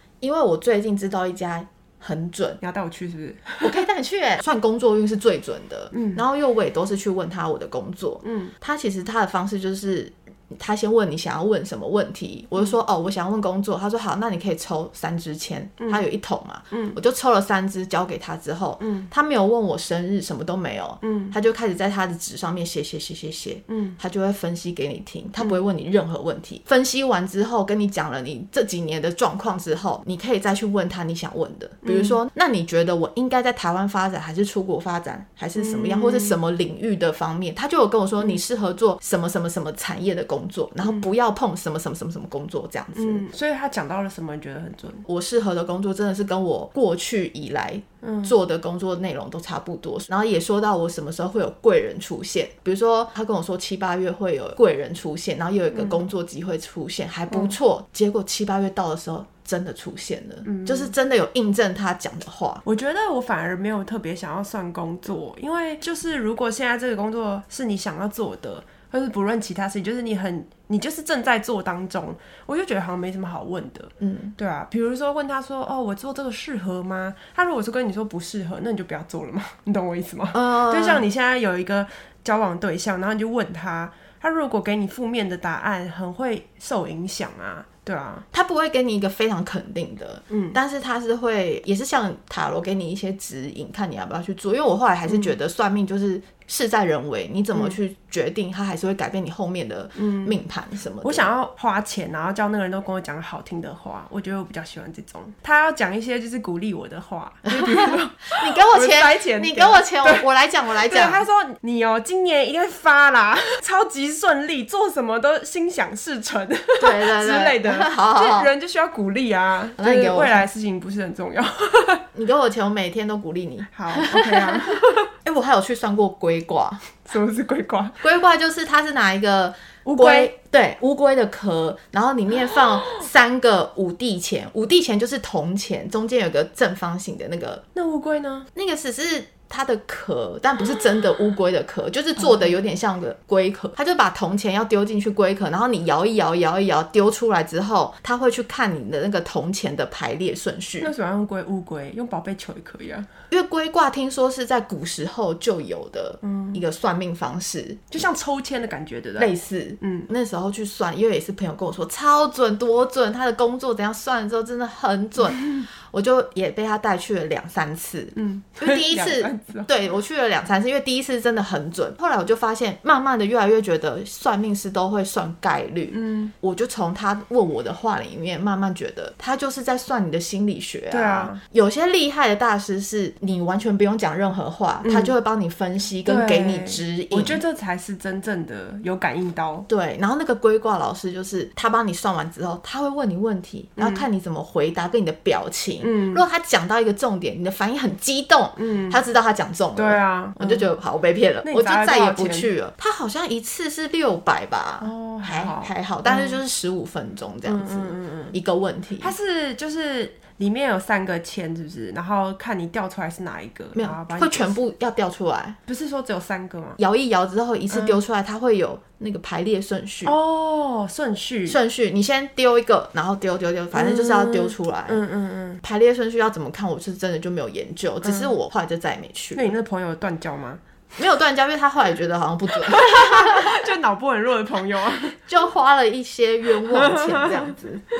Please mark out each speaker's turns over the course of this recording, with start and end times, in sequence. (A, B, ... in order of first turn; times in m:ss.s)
0:00.2-0:02.6 A
0:02.6-0:03.8 B
0:03.6-0:43.3 A
0:05.9-0:06.2 B
0:08.2-0:08.5 B
0:16.7-0:17.0 B
0:18.8-0:19.1 B
0:21.0-0:21.3 B
0:23.7-0:24.0 B
0:31.8-0:32.2 B
0:35.5-0:36.4 B
0:42.9-0:45.0 B
0:45.0-1:02.6 A
0:48.0-0:48.3 B
0:55.7-0:56.0 B
1:00.4-1:00.9 B
1:02.6-1:28.2 B
1:14.0-1:14.3 A
1:20.3-1:21.0 A
1:28.3-1:41.3 A
1:30.3-1:30.6 B
1:35.1-1:35.3 B
1:40.0-1:40.4 B
1:41.0-1:50.2 B
1:47.4-1:51.2 A
1:50.8-2:02.0 B
1:56.8-1:58.5 A
1:59.8-2:00.4 A
2:02.1-2:07.0 A
2:03.7-2:05.0 B
2:07.0-2:08.0 B
2:08.0-2:17.6 A
2:09.8-2:10.3 B
2:17.7-2:18.5 B
2:18.5-2:30.9 A
2:22.2-2:22.5 B
2:30.8-2:33.1 B
2:33.3-2:37.8 A
2:36.2-2:36.6 B
2:37.9-2:40.1 B
2:39.2-3:07.4 A
2:48.2-2:49.7 B
2:55.9-2:56.3 B
3:00.9-3:01.4 B
3:04.8-3:05.1 B
3:06.0-3:09.7 B
3:09.7-3:29.1 A
3:13.8-3:14.0 B
3:15.8-3:16.2 B
3:18.6-3:19.0 B
3:19.7-3:20.7 B
3:21.4-3:22.5 B
3:24.8-3:26.4 B
3:27.4-3:28.4 B
3:29.0-3:34.6 B
3:33.7-3:35.6 A
3:35.7-3:36.8 B
3:36.8-3:40.1 A
3:37.7-3:38.0 B
3:40.0-3:41.6 B
3:41.5-3:45.0 A
3:43.7-3:45.6 B
3:45.6-3:49.5 A
3:48.0-3:48.3 B
3:49.3-3:50.6 B
3:51.0-3:53.6 A
3:52.5-3:55.2 B
3:55.3-3:57.8 A
3:56.6-3:57.5 B